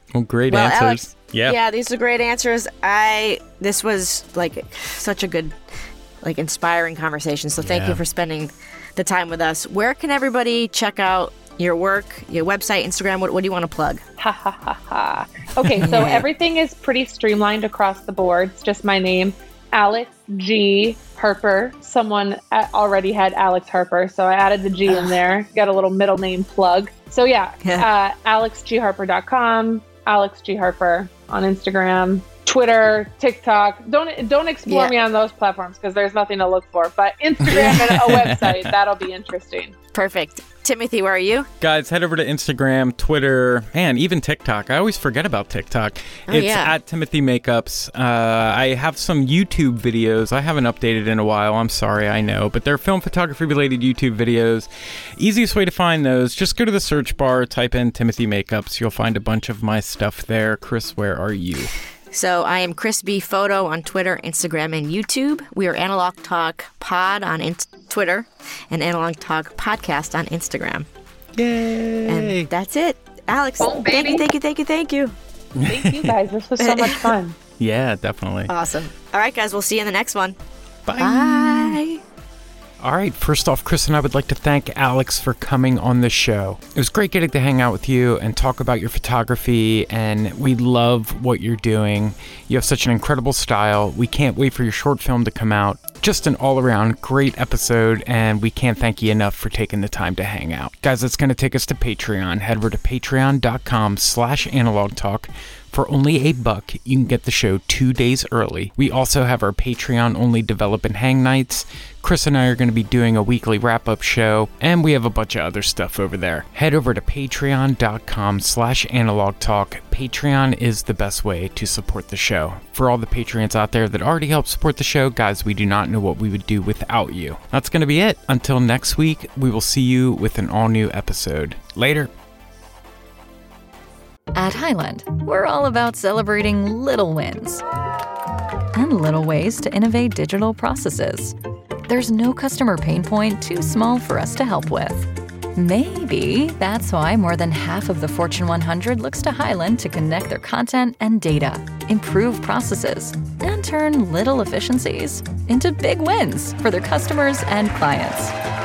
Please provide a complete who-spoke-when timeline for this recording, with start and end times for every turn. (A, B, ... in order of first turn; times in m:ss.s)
0:00.1-0:01.6 A
0:00.5-0:14.0 B
0:07.6-0:08.0 A
0:14.2-0:39.8 C
0:15.6-0:16.0 A
0:15.8-0:16.2 B
0:24.9-0:25.1 B
0:34.7-0:34.9 B
0:37.5-0:38.7 A
0:37.6-0:37.8 B
0:39.9-0:41.5 B
0:41.6-1:01.7 A
0:46.3-0:46.8 B
1:02.1-1:10.9 B
1:11.4-1:12.5 A
1:12.1-1:15.1 B
1:13.6-1:14.3 C
1:15.6-1:16.1 A
1:15.6-1:17.4 C
1:16.6-1:17.1 B
1:17.6-1:18.5 A
1:18.5-1:20.4 B
1:20.9-1:21.8 A
1:21.0-1:22.0 B
1:22.8-2:12.1 A
2:14.4-2:17.7 D
2:18.8-2:21.4 D
2:21.9-2:38.3 D